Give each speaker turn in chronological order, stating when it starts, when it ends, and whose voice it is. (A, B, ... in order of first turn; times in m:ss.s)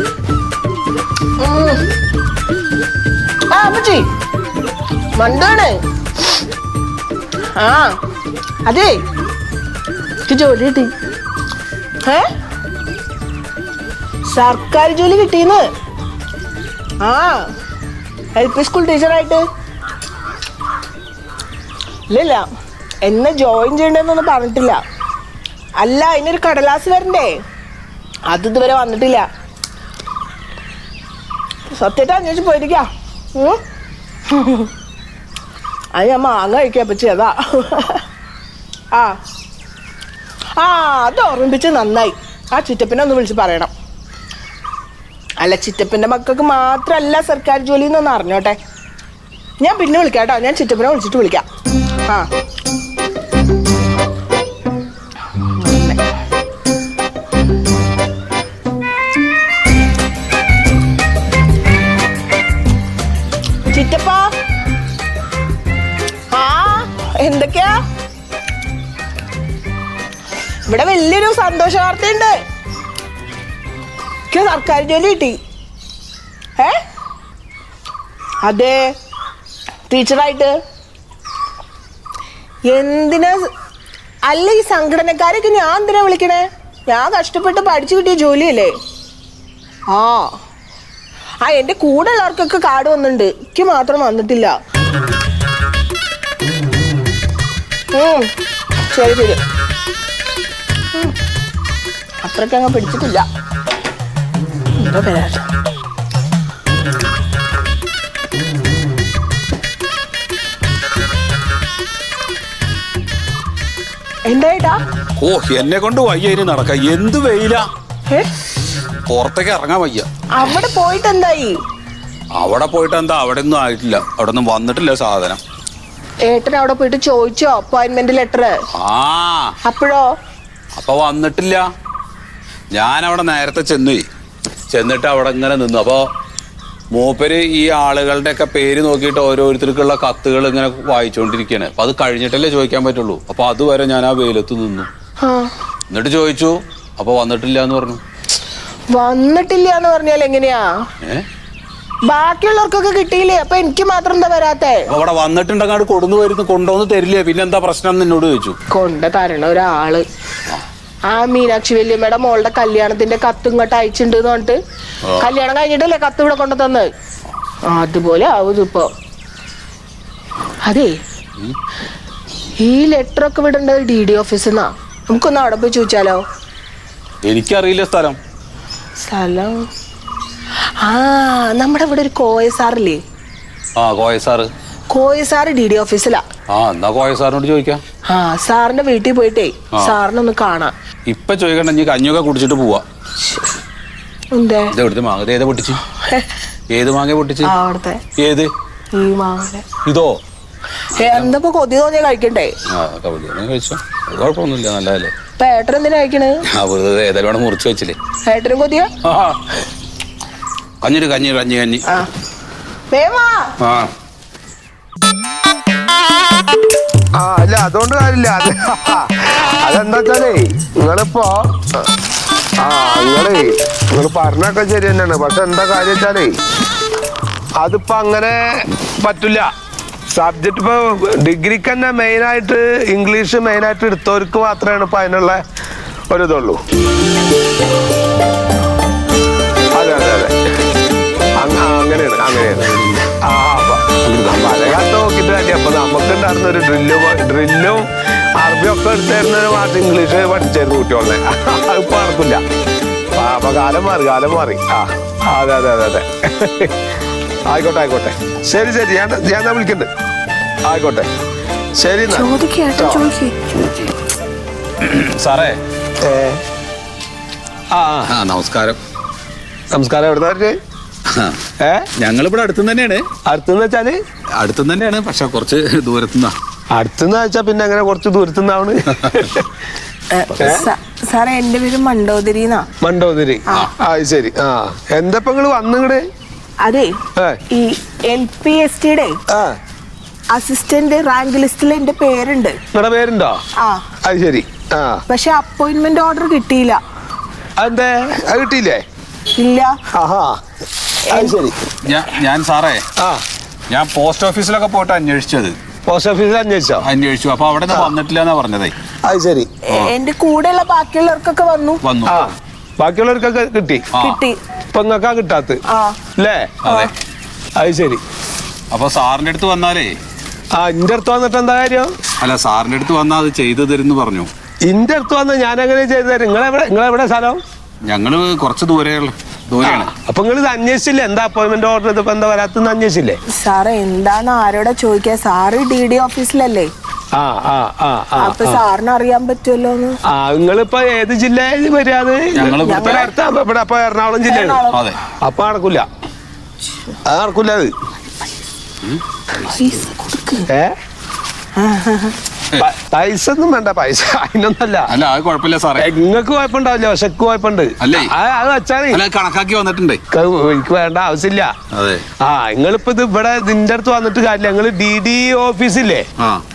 0:01.4-0:01.9 A
0:03.5-0:04.1 A
0:05.1-0:05.8 A
0:07.5-0:08.0 A
0:08.6-0:09.0 A
0:10.3-0:10.9 A
0:14.2-0:15.7 A
0:17.0-0:17.4 A
0:18.3-0:19.4 A
0:22.1-0:22.4 A
0:23.0-0:24.8 A
0:25.8-0:27.3 A
0:28.3-0:29.3 A
0:31.7-0:33.6 A
0:34.3-0:34.7 A
0:35.9-0:38.0 A
0:40.6-0:43.7 A
0:45.4-0:48.6 A
0:49.6-0:51.4 A
0:55.6-0:56.0 A
1:03.7-1:04.3 A
1:06.3-1:07.8 A
1:10.6-1:12.3 A
1:14.3-1:15.4 A
1:18.4-1:18.9 A
1:19.9-1:20.5 A
1:22.6-1:23.4 A
1:24.3-1:28.7 A
1:29.9-1:30.3 A
1:31.4-1:34.5 A
1:37.9-1:38.3 A
1:38.9-1:39.4 A
1:42.2-1:43.3 A
1:44.7-1:45.4 A
1:54.2-1:54.8 A
1:55.2-1:57.6 B
1:59.0-2:00.1 B
2:00.4-2:01.6 A
2:02.4-2:05.4 B
2:06.3-2:08.5 A
2:08.8-2:09.5 B
2:09.6-2:10.0 A
2:10.8-2:11.6 B
2:12.7-2:14.0 B
2:14.7-2:16.1 B
2:16.9-2:24.9 B
2:25.2-2:25.5 A
2:25.9-2:28.0 B
2:28.9-2:30.7 A
2:32.0-2:34.9 A
2:34.9-2:38.6 B
2:38.7-2:40.0 A
2:41.1-2:44.6 A
2:45.2-2:46.9 A
2:47.7-2:48.9 A
2:50.6-2:50.9 A
2:52.6-2:56.2 A
2:57.2-2:58.2 B
2:59.0-2:59.6 A
3:00.8-3:03.0 A
3:03.8-3:04.5 B
3:04.9-3:06.2 A
3:06.5-3:07.8 B
3:08.1-3:10.7 A
3:11.1-3:12.8 B
3:14.3-3:14.7 A
3:14.7-3:15.8 B
3:16.0-3:16.4 A
3:16.7-3:17.5 B
3:17.4-3:18.0 A
3:18.2-3:18.5 B
3:18.9-3:19.6 A
3:19.8-3:20.2 B
3:20.9-3:22.5 A
3:21.0-3:21.3 B
3:22.7-3:25.1 B
3:25.4-3:26.4 A
3:26.5-3:28.0 B
3:28.2-3:28.9 A
3:29.0-3:29.4 B
3:30.8-3:31.8 B
3:32.9-3:33.4 A
3:33.6-3:33.9 B
3:37.2-3:41.5 C
3:42.6-3:46.4 C
3:47.6-3:49.5 C
3:50.1-3:55.4 C
3:56.1-3:56.6 C
3:59.7-4:00.3 C
4:01.4-4:12.4 C
4:02.5-4:03.0 B
4:04.0-4:04.7 B
4:13.1-4:16.7 C
4:17.5-4:19.9 C
4:20.6-4:21.1 C
4:21.8-4:23.0 C
4:22.1-4:23.4 A
4:24.8-4:25.6 B
4:26.0-4:26.4 C
4:27.7-4:28.1 C
4:28.0-4:28.8 B
4:29.7-4:30.6 C
4:31.1-4:31.4 B
4:31.6-4:31.9 C
4:32.0-4:33.0 B
4:33.2-4:34.0 C
4:34.4-4:36.3 B
4:36.7-4:39.4 C
4:38.9-4:39.3 B
4:40.1-4:42.7 A
4:40.3-4:40.7 C
4:42.8-4:46.0 C
4:46.6-4:47.0 A
4:47.5-4:49.2 A
4:49.3-4:49.6 C
4:50.3-4:52.6 A
4:52.7-4:53.4 C
4:53.6-4:53.8 A
4:54.0-4:55.0 C
4:55.1-4:56.8 A
4:57.6-4:58.8 C
4:59.3-4:59.8 A
4:59.9-5:00.4 C
5:01.1-5:01.4 A
5:01.1-5:01.6 C
5:01.8-5:02.8 B
5:03.0-5:03.2 C
5:03.7-5:05.6 B
5:05.8-5:06.8 C
5:06.8-5:08.7 B
5:09.0-5:09.5 C
5:09.7-5:11.8 A
5:11.8-5:12.2 B
5:12.0-5:13.9 C
5:13.9-5:14.2 B
5:14.0-5:14.4 A
5:14.7-5:15.6 C
5:15.7-5:16.0 A
5:16.2-5:16.6 C
5:16.6-5:16.9 B
5:17.6-5:18.0 C
5:18.7-5:20.0 B
5:20.5-5:21.9 C
5:22.2-5:24.3 B
5:24.6-5:27.4 C
5:27.8-5:29.9 B
5:29.6-5:33.2 C
5:33.3-5:36.7 A
5:37.1-5:38.6 C
5:38.2-5:40.0 A
5:40.1-5:44.6 C
5:42.3-5:43.1 B
5:42.6-5:43.0 A
5:44.3-5:44.8 A
5:44.7-5:45.0 B
5:45.2-5:45.9 C
5:47.0-5:47.7 C
5:49.5-5:50.5 A
5:50.5-5:50.7 C
5:51.5-5:52.2 A
5:52.6-5:54.9 C
5:54.9-5:55.9 B
5:55.8-5:59.0 C
5:57.8-5:58.1 B
5:58.9-6:00.0 B
6:00.1-6:01.5 C
6:01.7-6:02.0 B
6:02.2-6:06.1 C